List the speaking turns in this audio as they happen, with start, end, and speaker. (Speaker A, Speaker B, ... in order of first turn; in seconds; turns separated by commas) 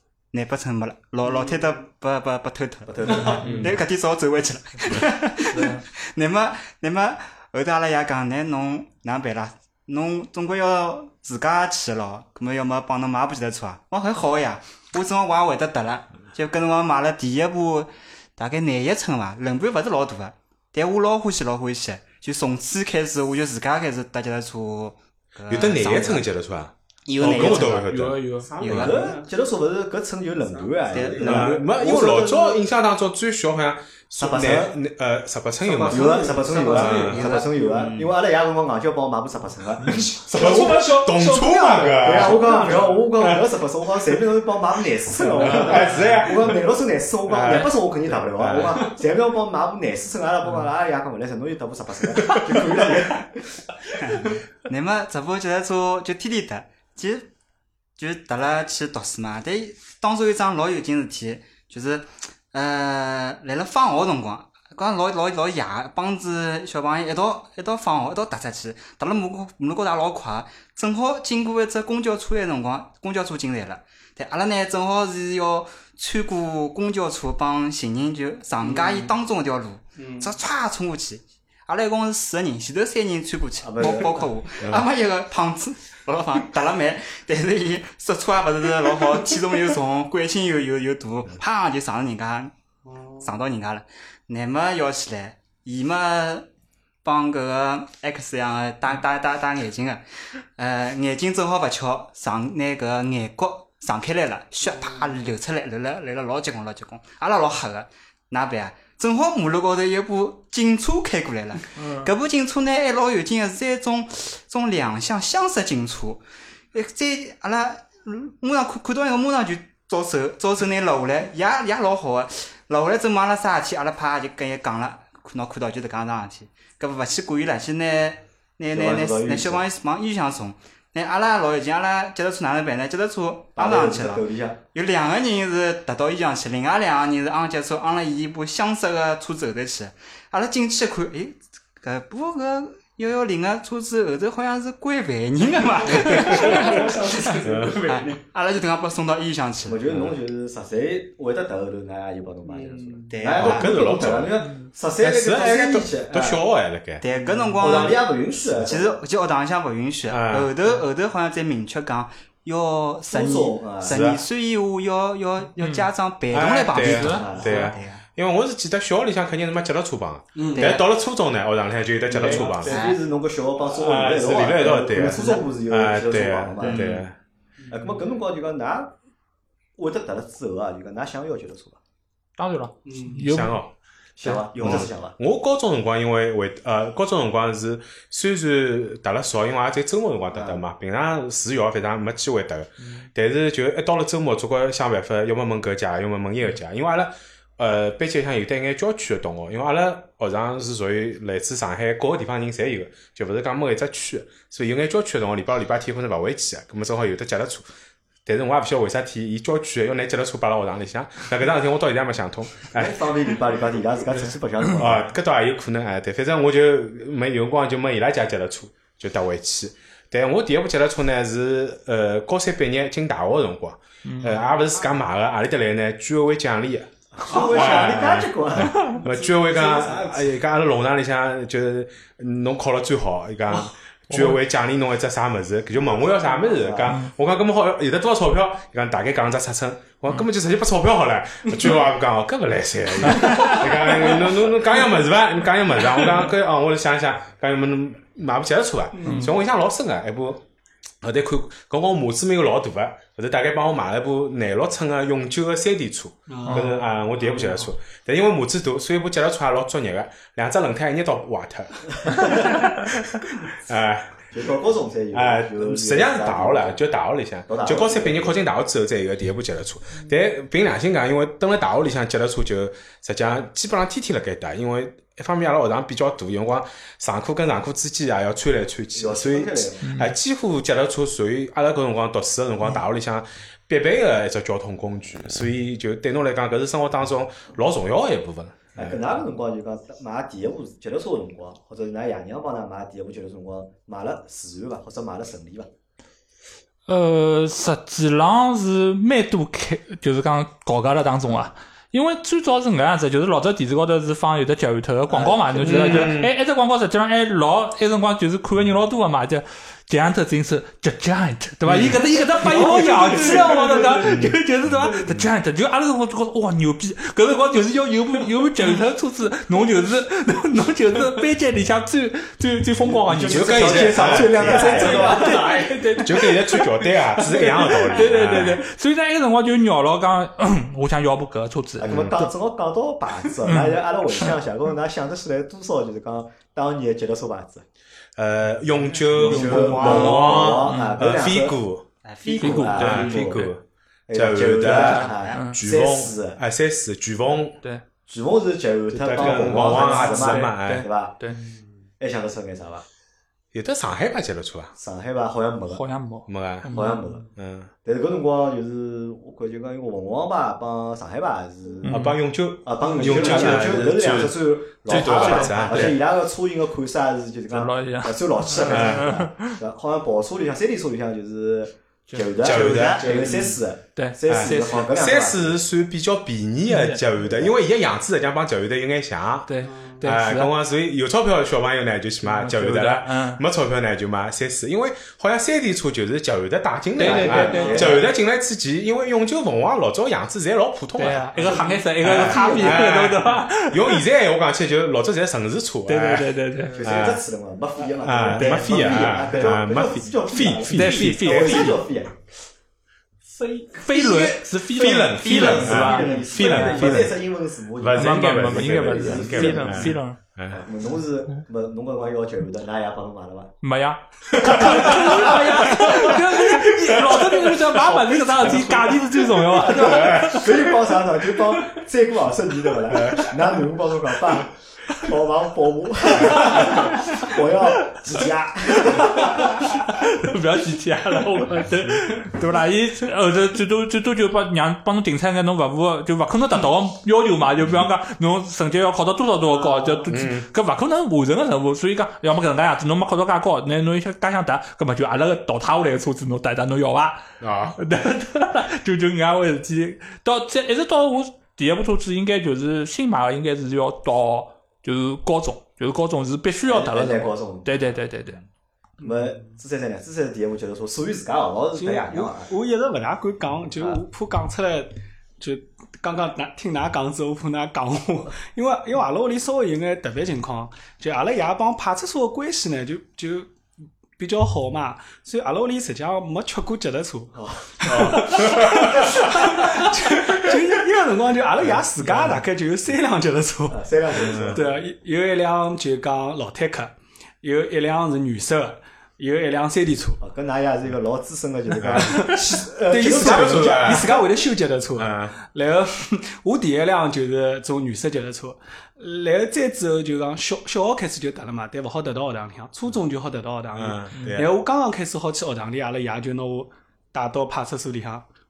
Speaker A: 0.3-26.3, Speaker B: 2.9-3.6, Speaker C: 3.1-3.4, Speaker D: 3.4-3.8, Speaker E: 5.5-5.8, Speaker D: 25.5-29.0, Speaker A: 27.1-29.2, Speaker E: 27.5-28.5, Speaker C: 28.2-29.3, Speaker B: 28.6-32.6, Speaker C: 30.8-31.6, Speaker A: 30.9-31.5, Speaker D: 31.2-37.4, Speaker B: 34.2-34.8, Speaker B: 35.6-40.7, Speaker C: 35.9-36.5, Speaker A: 36.4-38.1, Speaker C: 37.3-37.9, Speaker D: 40.0-43.4, Speaker C: 40.3-42.9, Speaker B: 42.0-53.6, Speaker D: 45.3-46.6, Speaker D: 47.3-48.9, Speaker A: 54.7-57.3, Speaker A: 58.0-92.5, Speaker C: 78.6-79.1, Speaker C: 80.0-80.3, Speaker B: 83.6-84.2, Speaker C: 92.8-93.3, Speaker A: 93.2-96.5, Speaker A: 97.0-150.1, Speaker E: 111.7-112.1, Speaker B: 128.7-129.7, Speaker B: 133.6-134.6, Speaker C: 145.8-148.2, Speaker D: 147.4-147.8, Speaker B: 149.7-156.4, Speaker C: 152.5-153.2, Speaker A: 153.1-153.7, Speaker D: 153.3-154.4, Speaker D: 155.0-157.0, Speaker A: 157.0-168.0, Speaker C: 157.2-157.5, Speaker B: 157.6-159.0, Speaker D: 160.1-160.5, Speaker B: 163.1-164.1, Speaker D: 163.8-164.2, Speaker E: 165.6-165.9, Speaker D: 166.3-172.8, Speaker E: 166.8-167.6, Speaker B: 167.1-167.5, Speaker C: 170.3-170.8, Speaker A: 170.5-170.9, Speaker B: 172.1-176.9, Speaker E: 172.1-172.5, Speaker A: 172.6-173.0, Speaker D: 173.7-177.2, Speaker A: 176.6-177.1, Speaker C: 177.6-178.0, Speaker B: 177.7-178.9, Speaker B: 179.8-181.8, Speaker E: 182.4-183.6, Speaker C: 182.8-183.2, Speaker D: 183.2-183.7, Speaker B: 184.2-185.2, Speaker D: 184.6-207.7, Speaker B: 190.3-190.6, Speaker D: 208.3-213.1, Speaker B: 212.7-215.1, Speaker D: 214.7-250.4, Speaker E: 224.0-224.5, Speaker B: 227.2-228.8, Speaker C: 227.2-228.0, Speaker E: 228.6-229.0, Speaker C: 228.8-230.3, Speaker E: 234.1-234.4, Speaker B: 236.4-237.0, Speaker E: 236.9-237.1, Speaker E: 243.2-243.7, Speaker C: 248.9-249.4, Speaker E: 249.0-249.3, Speaker D: 251.0-264.2, Speaker C: 256.3-257.5, Speaker E: 256.4-256.8, Speaker B: 262.1-262.4, Speaker B: 264.3-266.8, Speaker D: 265.1-289.0, Speaker B: 267.5-268.4, Speaker B: 278.9-279.9, Speaker E: 279.8-280.1, Speaker B: 288.8-295.7, Speaker E: 296.9-332.3, Speaker B: 305.1-306.2, Speaker D: 305.6-306.3, Speaker D: 311.7-312.0, Speaker C: 312.2-315.2, Speaker D: 314.0-314.4, Speaker B: 322.9-325.5, Speaker C: 323.1-328.4, Speaker D: 323.2-325.3, Speaker D: 326.0-328.6, Speaker B: 331.8-337.6, Speaker D: 331.9-332.1, Speaker E: 333.4-334.3, Speaker D: 338.2-341.9, Speaker E: 339.1-341.1, Speaker B: 339.1-341.6, Speaker A: 342.0-342.8, Speaker B: 342.2-343.5, Speaker E: 342.4-343.6, Speaker D: 342.6-343.6, Speaker B: 344.1-346.4, Speaker D: 344.1-347.6, Speaker E: 344.7-345.6, Speaker A: 344.9-345.4, Speaker B: 348.1-351.2, Speaker D: 348.9-350.9, Speaker E: 349.2-351.4, Speaker B: 352.0-352.9, Speaker D: 353.5-354.7, Speaker B: 354.8-355.9, Speaker E: 355.7-357.1, Speaker D: 356.3-356.8, Speaker B: 356.7-357.3, Speaker D: 357.4-357.7, Speaker B: 357.9-362.1, Speaker D: 361.8-366.0, Speaker E: 361.9-362.2, Speaker B: 362.6-375.6, Speaker E: 362.9-363.8, Speaker E: 364.9-365.9, Speaker E: 367.5-369.6, Speaker D: 368.7-369.1, Speaker E: 372.1-372.4, Speaker D: 372.4-373.3, Speaker C: 373.1-373.5, Speaker E: 373.9-374.9, Speaker D: 374.3-397.2, Speaker E: 376.7-377.0, Speaker B: 377.1-377.6, Speaker E: 379.5-380.5, Speaker C: 379.6-380.0, Speaker E: 382.2-383.4, Speaker E: 387.0-388.0, Speaker B: 387.0-388.1, Speaker C: 387.3-387.9, Speaker E: 391.0-394.0, Speaker B: 391.4-393.1, Speaker E: 395.9-396.8, Speaker B: 396.8-402.2, Speaker D: 398.0-401.6, Speaker E: 398.3-399.5, Speaker E: 400.7-401.8, Speaker C: 403.2-404.2, Speaker E: 403.8-407.1, Speaker B: 403.9-413.6, Speaker D: 404.1-407.2, Speaker D: 407.8-410.6, Speaker E: 407.9-410.2, Speaker E: 413.6-420.8, Speaker B: 414.3-416.2, Speaker B: 417.9-418.8, Speaker B: 419.5-429.5, Speaker D: 419.6-420.4, Speaker D: 422.9-423.3, Speaker E: 426.4-426.9, Speaker E: 428.8-458.4, Speaker C: 439.5-440.1, Speaker D: 440.1-440.5, Speaker D: 447.4-447.8, Speaker B: 456.6-457.9, Speaker C: 459.0-459.5, Speaker B: 459.0-462.5, Speaker C: 461.8-473.6, Speaker C: 474.2-490.2, Speaker B: 477.3-479.7, Speaker D: 477.9-478.9, Speaker B: 483.7-484.7, Speaker D: 484.2-484.6, Speaker B: 490.2-494.0, Speaker D: 491.8-492.1, Speaker C: 491.9-508.3, Speaker D: 493.0-494.3, Speaker D: 495.0-495.3, Speaker D: 503.8-504.6, Speaker E: 504.1-504.5